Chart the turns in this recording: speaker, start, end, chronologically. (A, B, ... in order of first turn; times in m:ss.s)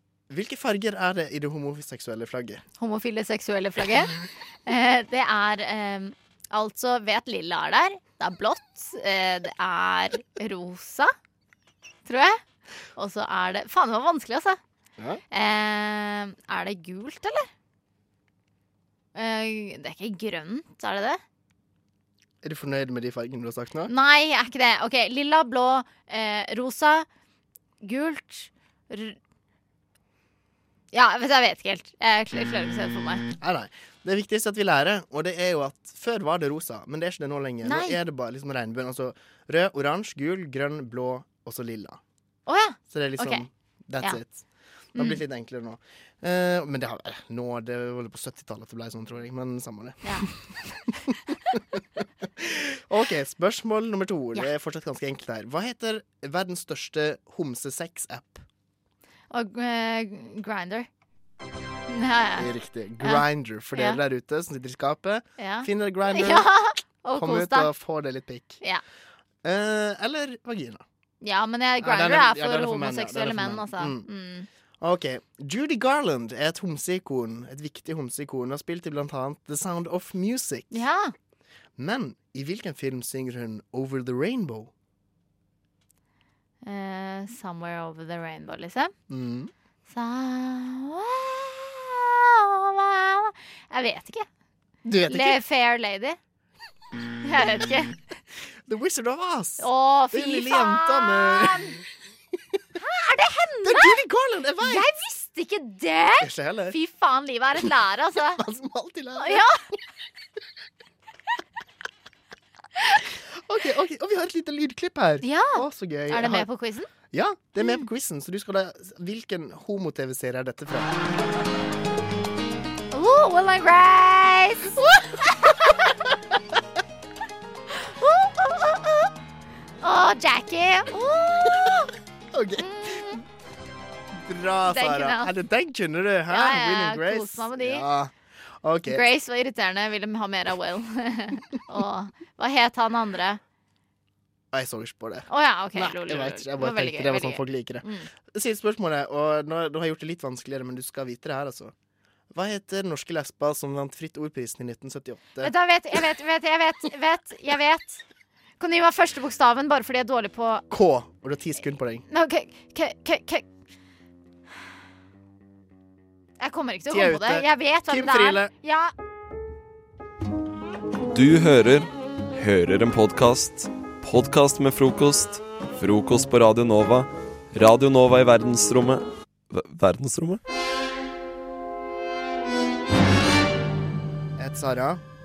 0:00.3-0:02.6 A
0:02.8-0:11.1 B
0:12.0-0:12.4 B
0:13.0-0:14.6 B
0:15.3-0:17.5 B
0:19.1-0:21.2 B
0:22.4-0:23.9 A
0:23.9-0:27.0 B
0:27.8-0:29.2 B
0:30.9-0:33.3 B
0:33.4-0:42.0 A
0:37.6-0:38.0 B
0:42.5-0:43.4 B
0:42.9-0:44.4 A
0:44.9-0:45.2 B
0:45.0-0:51.2 A
0:52.2-0:58.4 A
0:59.3-1:00.9 B
1:01.9-1:02.5 B
1:02.4-1:06.5 A
1:03.0-1:04.0 B
1:05.4-1:07.7 B
1:07.2-1:08.6 A
1:09.4-1:10.8 A
1:11.2-1:14.5 B
1:11.8-1:14.1 A
1:14.8-1:20.8 A
1:20.7-1:21.1 B
1:21.8-1:24.7 A
1:26.6-1:28.9 B
1:29.1-1:29.5 A
1:29.9-1:34.3 B
1:34.8-1:35.4 A
1:35.1-1:36.2 B
1:37.2-1:38.0 B
1:38.5-1:41.8 A
1:39.6-1:41.7 B
1:42.8-1:44.0 B
1:43.6-1:44.9 A
1:44.6-1:48.4 B
1:46.2-1:46.8 A
1:48.4-1:49.4 A
1:49.2-1:49.6 B
1:53.4-1:56.5 A
1:55.2-1:56.9 B
1:57.1-2:01.0 A
2:02.9-2:04.8 B
2:07.7-2:09.1 B
2:09.8-2:11.9 B
2:12.3-2:13.2 A
2:12.6-2:13.2 B
2:14.2-2:19.0 A
2:14.6-2:15.3 B
2:16.3-2:17.9 B
2:18.9-2:23.4 B
2:24.5-2:31.7 A
2:25.3-2:28.1 B
2:32.3-2:35.5 A
2:35.4-2:38.0 B
2:38.6-2:40.6 B
2:40.7-2:42.0 A
2:42.1-2:43.4 B
2:46.4-2:48.9 B
2:46.9-2:48.5 A
2:51.1-3:00.4 C
3:04.4-3:05.0 A